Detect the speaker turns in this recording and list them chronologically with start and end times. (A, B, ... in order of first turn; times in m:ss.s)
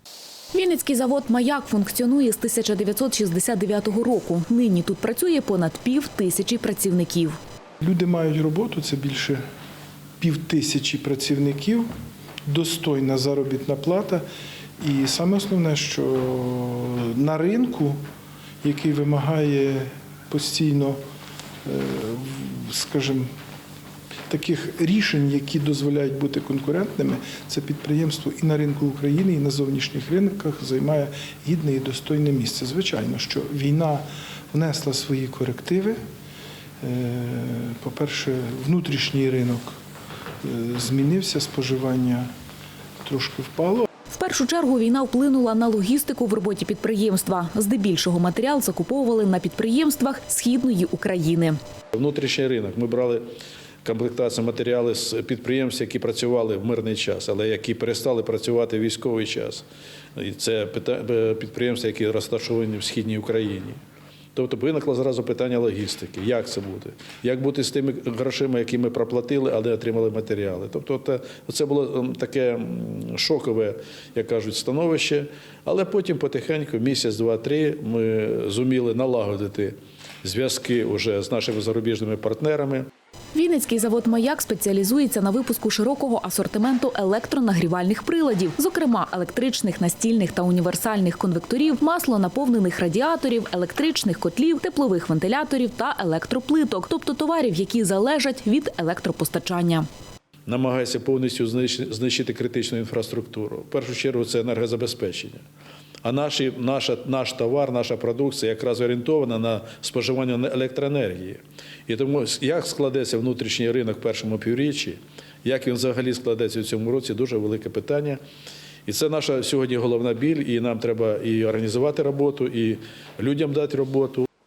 0:00.5-0:07.4 A
0:07.8-0:09.4 B
0:10.2-0:11.9 B
0:12.5-0:14.2 B
0:14.8-0:18.0 B
0:18.6-0:21.0 B
0:21.6-0:23.3 B
0:24.3-0:36.0 B
0:36.8-0:39.8 B
0:40.4-0:42.3 B
0:43.0-0:43.9 B
0:44.1-0:51.6 A
0:51.9-0:53.2 C
0:53.8-0:59.6 C
1:00.2-1:03.8 C
1:04.4-1:22.9 C
1:23.3-1:39.9 A
1:40.5-1:45.4 C
1:46.0-1:58.2 C
1:58.9-2:04.3 C